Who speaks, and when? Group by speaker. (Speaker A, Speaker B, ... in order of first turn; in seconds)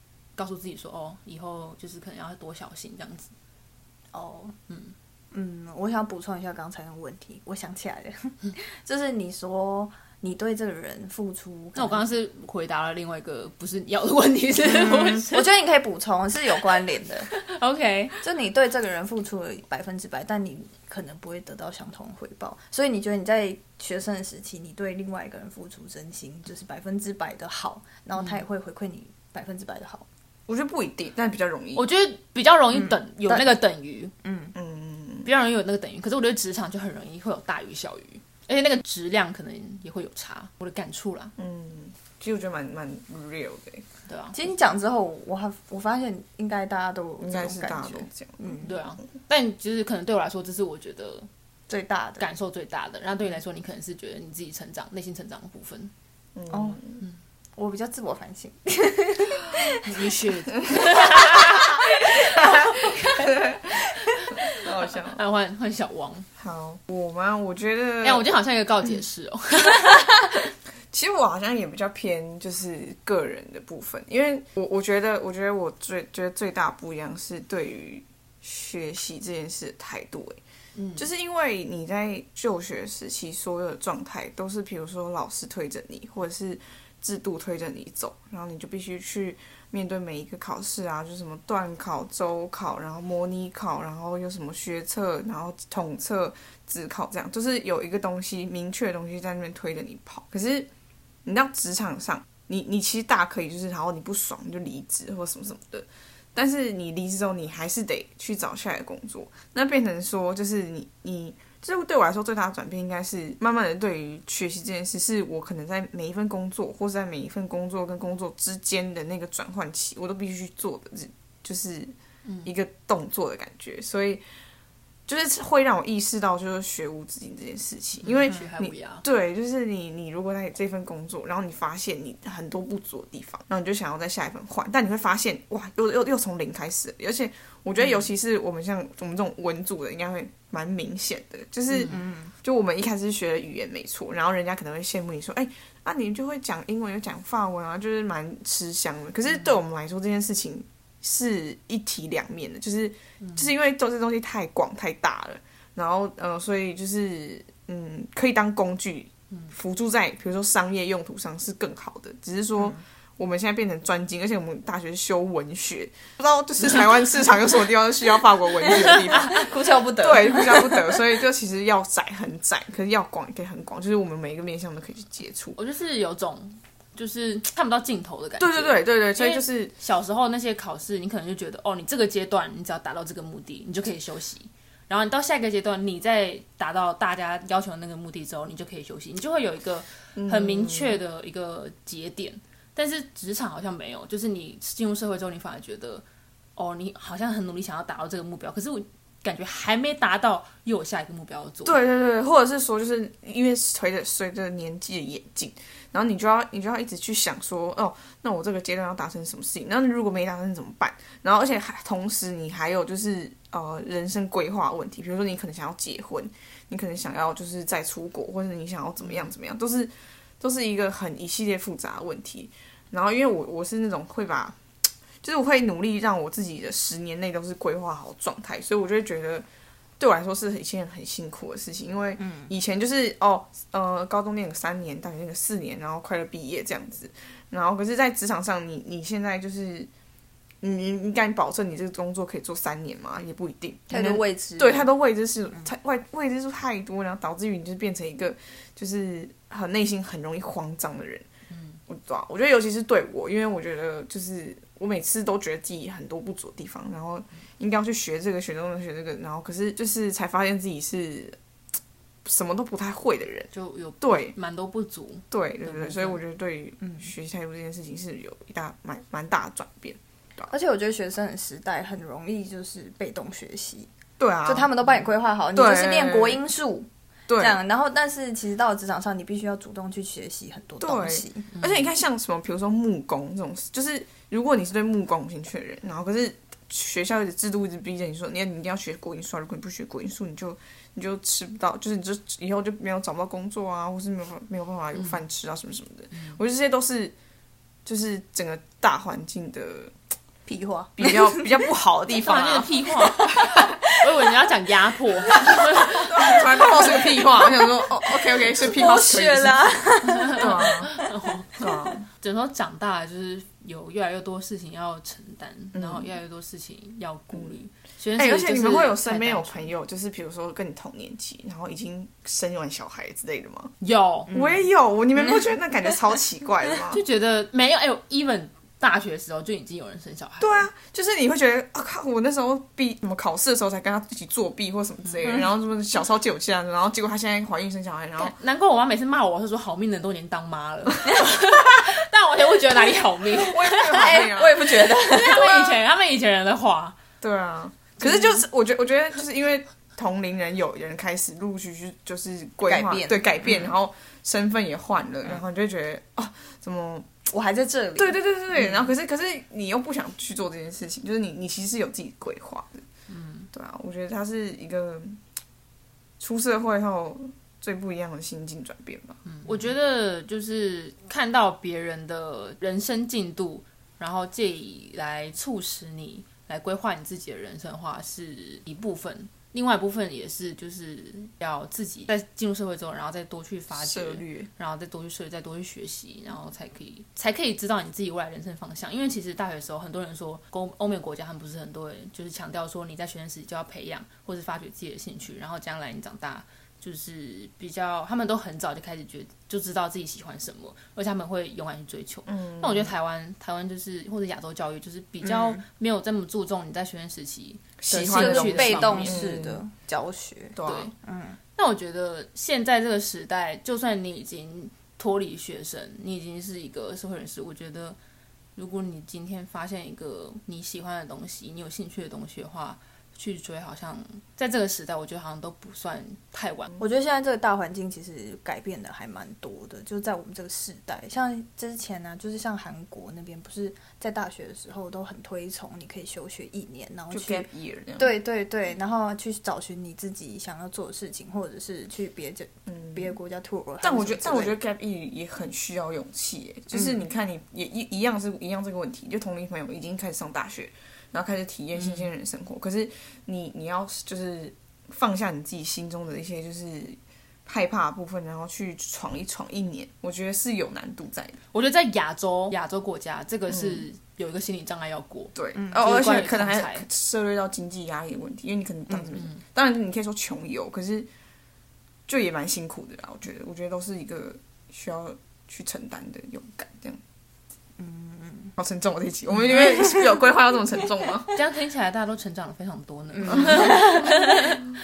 Speaker A: 0.4-3.3, 4.7-4.9, 11.8-15.5, 17.3-18.2, 28.2-28.4, 31.8-34.1, 35.2-41.3, 44.1-44.4, 48.6-51.3, 52.2-55.9, 59.8-62.4, 64.5-66.3, 68.0-70.2, 80.8-81.0, 122.2-122.5, 128.0-129.0, 153.2-153.5, 175.6-196.1, 196.6-201.8, 251.5-251.8, 263.5-266.2, 281.6-281.9, 295.0-295.2, 296.1-296.4, 302.2-306.4, 310.1-319.7, 323.8-324.3, 326.9-330.7, 338.2-344.2, 344.9-347.0, 363.1-363.5, 369.3-409.3, 410.7-410.9, 411.6-418.0, 418.6-426.7, 451.8-452.1, 461.5-466.9, 481.3-484.6
Speaker B: 4.1-4.6, 5.3-12.1, 14.6-17.3, 18.2-30.1, 32.7-33.5, 34.2-34.5, 44.3-48.7, 51.7-52.3, 56.5-56.8, 57.6-60.0, 60.9-63.7, 141.9-142.3, 168.7-170.8, 232.2-232.5, 243.9-244.9, 270.5-273.9, 274.5-281.5, 300.5-301.5, 303.0-304.4, 305.3-305.6, 306.2-311.0, 324.3-324.6, 343.8-345.8, 352.7-353.2, 357.3-358.2, 407.9-411.4, 426.8-444.6, 465.6-465.8, 477.8-478.5, 483.1-484.6
Speaker C: 30.5-31.9, 34.5-35.3, 41.4-43.8, 47.2-48.6, 56.4-57.0, 62.3-65.2, 66.4-68.3, 70.9-80.4, 81.0-100.7, 101.2-124.2, 125.1-175.6, 178.4-179.7, 190.2-191.0, 201.7-224.6, 225.2-229.4, 230.0-239.9, 240.6-251.3, 251.9-261.4, 262.2-263.5, 264.0-264.3, 265.3-270.5, 274.2-274.7, 275.6-276.4, 277.3-277.6, 280.8-297.1, 297.9-299.9, 301.0-303.5, 305.7-311.0, 311.6-312.1, 315.7-316.1, 318.2-323.7, 324.3-327.0, 330.4-338.4, 343.4-344.9, 347.2-357.1, 358.0-362.8, 363.5-365.2, 366.2-369.6, 383.8-384.5, 402.3-402.9, 407.8-409.6, 410.6-410.9, 437.1-438.2, 442.7-443.1, 443.8-461.4, 463.5-463.8, 465.4-471.1, 472.1-477.0, 478.6-481.4, 483.2-483.9